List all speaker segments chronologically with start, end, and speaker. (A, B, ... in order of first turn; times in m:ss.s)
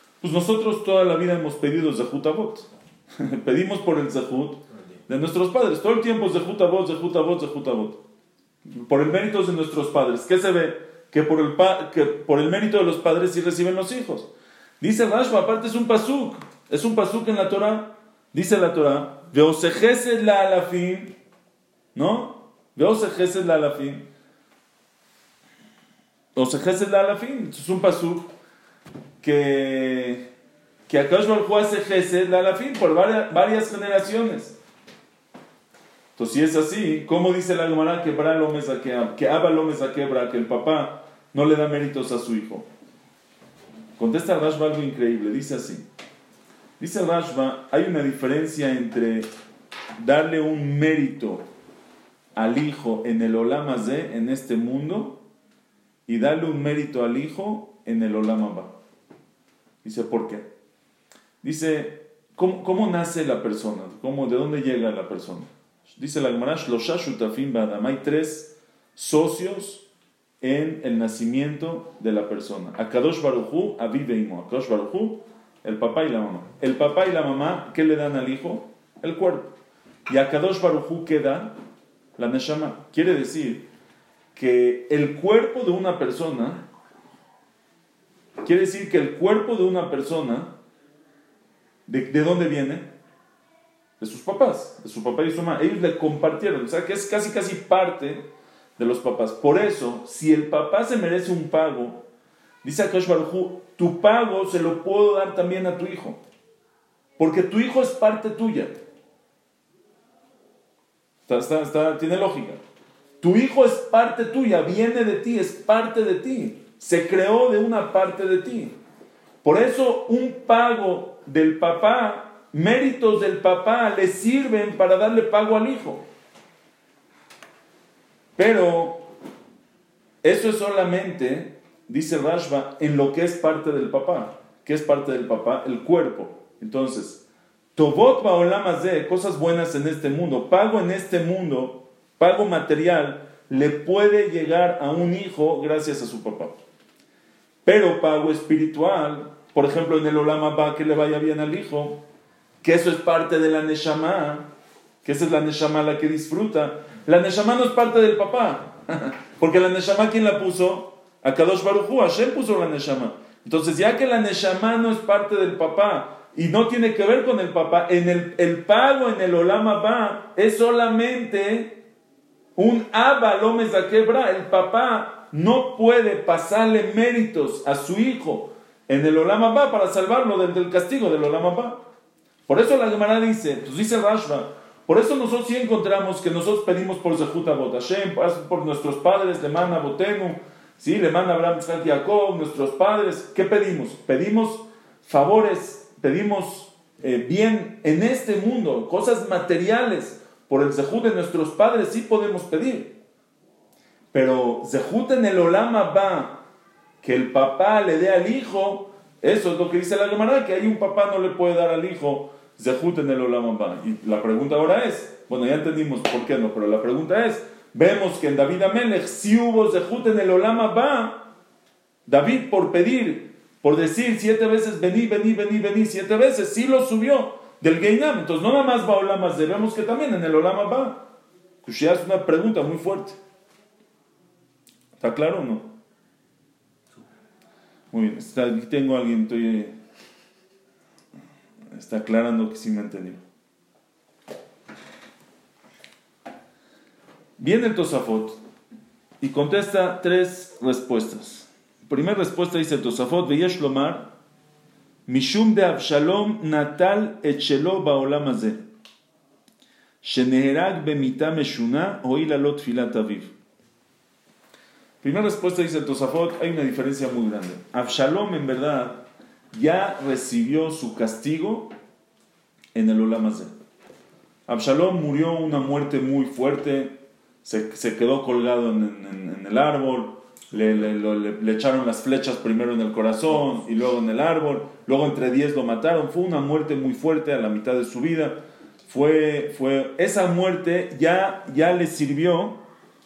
0:00.2-0:08.0 A
0:08.7-0:21.2 A
0:22.0-0:24.0 A
0:26.4-0:28.3 A
0:29.2-0:30.2 A
0:30.9-0:34.6 A
0:36.2-0:42.7 A
0:44.0-0:45.9 A
0:46.8-0:49.3 A
0:50.0-0:51.4 A
0:52.4-0:55.2 A
0:56.1-0:58.7 A
0:59.8-1:00.5 A
1:01.4-1:09.9 A
1:10.4-1:19.5 A
1:20.1-1:21.6 A
1:22.2-1:23.7 A
1:24.4-1:26.6 A
1:28.4-1:30.5 A
1:31.9-1:32.9 A
1:34.0-1:38.2 A
1:38.8-1:42.0 A
1:42.6-1:46.2 A
1:47.2-1:48.7 A
1:51.3-1:52.6 A
1:53.2-1:58.8 A
1:59.4-2:06.0 A
2:08.4-2:09.1 A
2:10.2-2:17.2 A
2:17.8-2:26.6 A
2:27.6-2:32.0 A
2:32.6-2:34.5 A
2:35.0-2:51.8 A
2:52.6-3:01.8 A
3:02.5-3:23.0 A
3:24.1-3:26.4 A
3:27.0-3:41.3 A
3:42.1-3:51.0 A
3:51.6-3:53.2 A
3:55.0-3:55.7 A
3:57.9-3:59.7 A
4:01.7-4:03.2 A
4:07.4-4:08.4 A
4:09.2-4:14.1 A
4:15.1-4:18.6 A
4:20.0-4:23.3 A
4:25.0-4:31.7 A
4:32.8-4:33.5 A
4:34.5-4:52.6 A